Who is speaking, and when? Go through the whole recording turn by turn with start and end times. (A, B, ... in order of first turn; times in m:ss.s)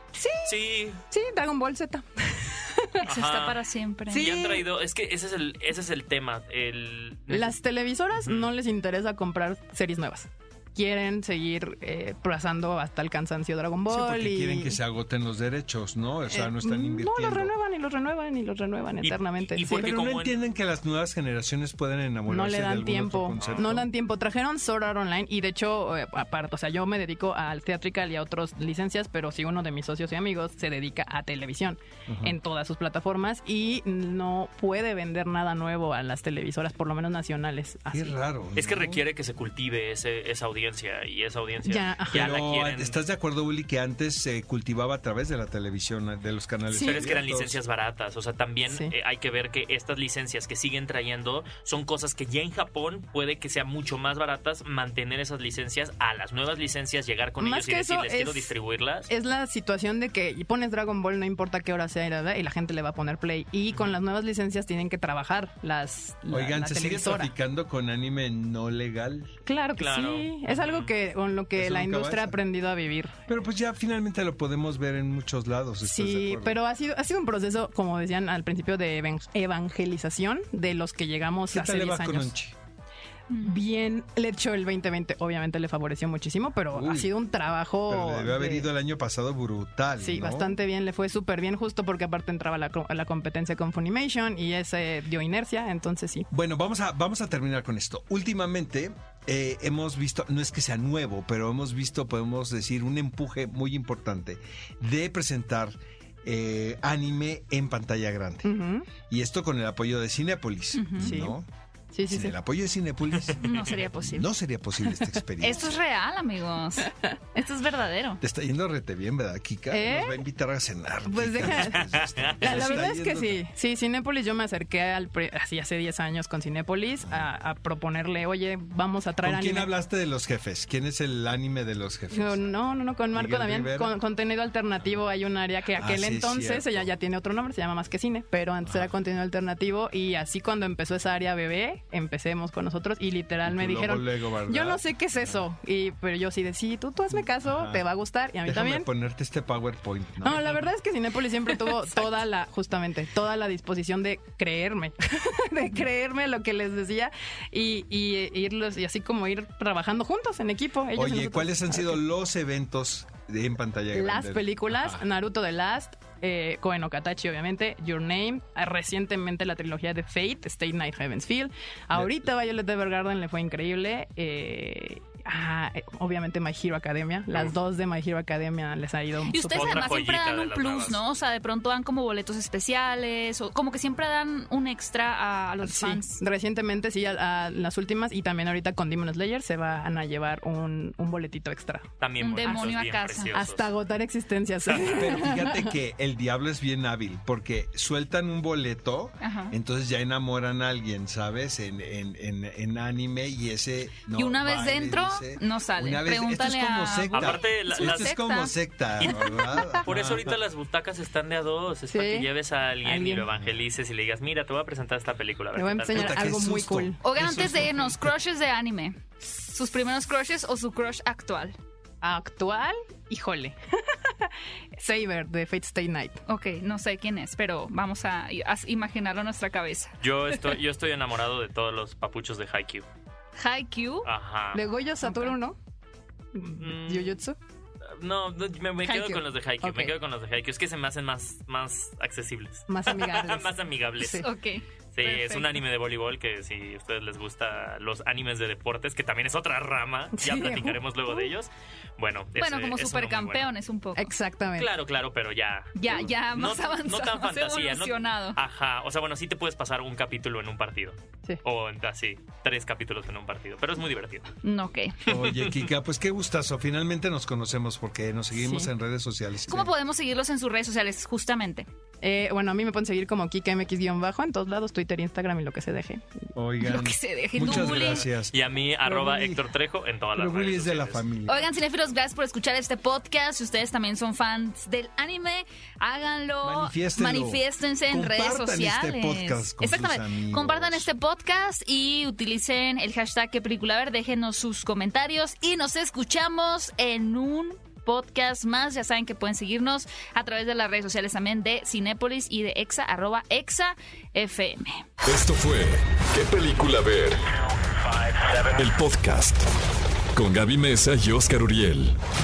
0:00.1-0:00.5 A
0:00.4-0:01.0 B
0:01.0-0:03.0 A
0:03.0-0:03.6 B
0:03.0-0:04.3 C
0:04.1-0:04.6 A
0:04.1-0:07.6 B
0:07.3-0:14.8 A
0:08.2-0:08.5 B
0:13.9-0:17.5 D
0:16.3-0:19.9 A
0:19.0-0:20.4 B
0:19.8-0:23.9 D
0:22.3-0:38.2 A
0:23.4-0:23.7 B
0:32.1-0:32.4 D
0:37.9-0:39.0 D
0:38.6-0:43.0 B
0:41.6-0:42.2 A
0:42.1-0:47.6 D
0:46.7-0:59.1 B
0:46.7-0:47.1 A
0:48.7-0:48.9 A
0:57.4-0:58.5 A
0:59.1-1:07.3 A
1:06.3-1:09.4 D
1:09.4-1:13.2 A
1:09.8-1:10.9 B
1:11.6-1:12.4 D
1:13.3-1:16.6 D
1:15.8-1:22.3 A
1:21.5-1:22.5 D
1:23.3-1:23.6 C
1:23.4-1:28.7 A
1:26.7-1:27.1 D
1:27.9-1:30.5 D
1:30.0-1:36.3 A
1:36.3-1:48.5 D
1:48.4-1:48.9 A
1:49.1-1:51.4 D
1:50.7-1:51.2 C
1:51.0-1:51.3 A
1:51.9-1:52.4 A
1:52.1-1:55.8 D
1:53.4-1:54.3 C
1:55.4-1:58.2 C
1:56.8-1:57.1 A
1:58.2-2:03.4 D
1:59.7-2:00.2 A
2:01.0-2:01.8 A
2:01.5-2:02.7 B
2:02.4-2:09.7 A
2:09.2-2:12.4 D
2:12.1-2:28.9 A
2:13.1-2:13.9 D
2:15.8-2:16.9 D
2:18.6-2:18.9 D
2:23.4-2:24.8 D
2:27.1-2:27.8 D
2:28.4-2:30.5 D
2:30.2-2:42.0 A
2:40.9-2:45.0 D
2:43.9-2:59.8 A
2:51.9-2:52.2 D
2:59.3-3:06.2 C
2:59.5-3:01.0 B
3:05.6-3:11.9 A
3:12.0-3:13.7 B
3:12.2-3:13.4 C
3:13.3-3:15.7 A
3:14.8-3:30.3 D
3:19.2-3:19.5 C
3:24.1-3:29.1 C
3:27.1-3:28.2 B
3:29.0-3:36.3 B
3:31.9-3:32.3 A
3:32.8-3:33.2 A
3:35.5-3:37.0 A
3:35.9-3:38.1 D
3:37.0-3:41.6 C
3:42.0-3:46.2 A
3:46.2-3:49.9 C
3:50.0-3:52.8 B
3:53.4-3:54.1 C
3:54.0-3:54.6 B
3:54.5-3:55.6 A
3:55.0-3:55.4 C
3:56.3-3:57.4 A
3:56.6-3:57.2 B
3:58.0-4:04.2 B
3:58.8-3:59.9 A
4:02.7-4:04.2 A
4:04.1-4:05.5 C
4:04.9-4:13.5 B
4:10.1-4:11.3 A
4:12.4-4:14.1 C
4:14.0-4:14.7 A
4:14.6-4:24.3 B
4:15.7-4:18.4 C
4:24.4-4:24.9 C
4:25.0-4:29.7 D
4:25.1-4:25.6 B
4:28.3-4:28.7 A
4:29.5-4:31.7 C
4:32.0-4:36.3 A
4:36.3-4:39.4 D
4:36.6-4:38.1 C
4:37.4-4:41.1 B
4:40.1-4:41.5 D
4:41.3-5:04.8 C
4:46.4-4:50.9 D
5:05.0-5:07.3 E
5:08.1-5:09.4 E
5:10.1-5:12.0 E